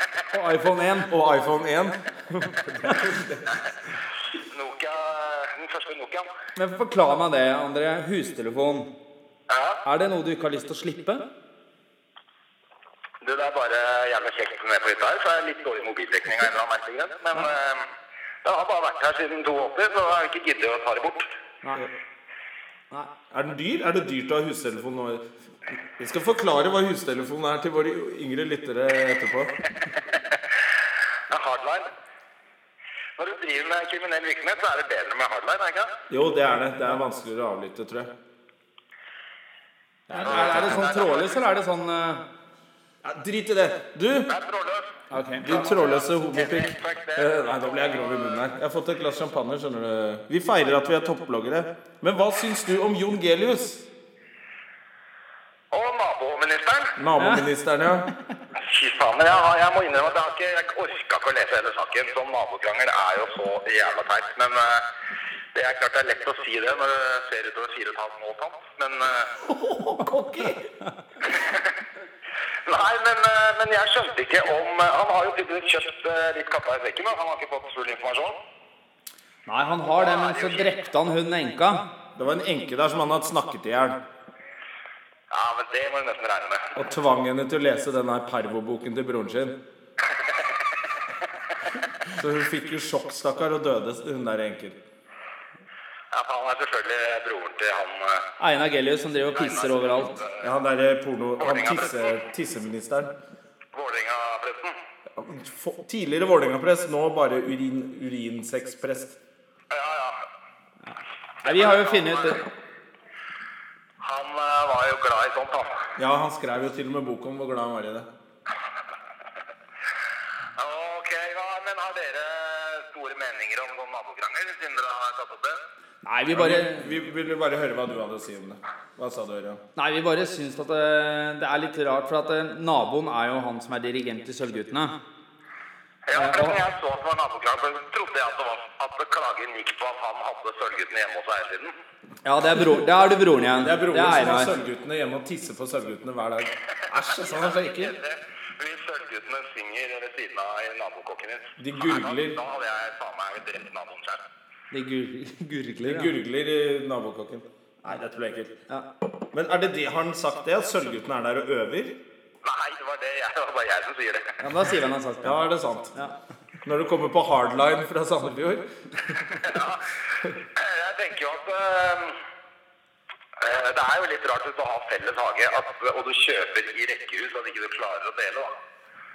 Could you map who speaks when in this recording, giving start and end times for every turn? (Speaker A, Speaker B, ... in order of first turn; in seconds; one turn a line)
Speaker A: 0.3-1.1
Speaker B: 1.1-3.6
Speaker C: 4.5-6.3
Speaker A: 6.6-8.9
Speaker C: 9.5-9.8
Speaker A: 9.8-11.2
Speaker C: 13.2-17.9
Speaker C: 18.4-21.3
Speaker B: 23.3-25.2
Speaker B: 26.0-29.5
Speaker C: 31.3-31.9
Speaker C: 33.2-35.9
Speaker B: 36.1-38.1
Speaker B: 40.1-40.9
Speaker A: 40.1-42.2
Speaker C: 40.2-41.4
Speaker B: 43.0-44.3
Speaker C: 44.3-48.4
Speaker A: 45.1-45.5
Speaker B: 45.4-53.8
Speaker C: 55.7-57.0
Speaker B: 57.0-58.1
Speaker A: 57.2-57.5
Speaker C: 58.6-64.8
Speaker C: 65.5-69.3
Speaker B: 69.4-70.6
Speaker C: 71.2-71.7
Speaker C: 72.7-78.4
Speaker A: 79.5-81.9
Speaker C: 79.8-80.7
Speaker B: 82.2-84.0
Speaker C: 85.3-86.8
Speaker B: 86.8-89.6
Speaker C: 90.1-90.5
Speaker B: 92.1-94.8
Speaker C: 96.1-98.3
Speaker A: 98.4-100.2
Speaker C: 99.3-100.5
Speaker B: 100.4-103.1
Speaker C: 101.4-102.2
Speaker C: 103.7-104.8
Speaker B: 105.2-109.2
Speaker C: 109.7-110.3
Speaker A: 110.9-112.4
Speaker C: 111.4-112.5
Speaker C: 114.0-115.9
Speaker B: 116.0-118.1
Speaker C: 120.5-125.6
Speaker A: 126.0-126.9
Speaker B: 126.3-129.6
Speaker A: 129.8-135.0
Speaker C: 136.1-141.8
Speaker A: 136.1-136.6
Speaker A: 142.2-144.6
Speaker B: 143.5-147.9
Speaker C: 146.9-154.2
Speaker B: 151.6-152.4
Speaker A: 154.7-156.1
Speaker B: 155.8-158.6
Speaker B: 159.3-162.0
Speaker C: 162.4-164.4
Speaker A: 164.4-166.2
Speaker B: 165.2-166.0
Speaker B: 166.6-169.4
Speaker C: 169.4-169.9
Speaker C: 170.4-172.2
Speaker C: 173.4-178.6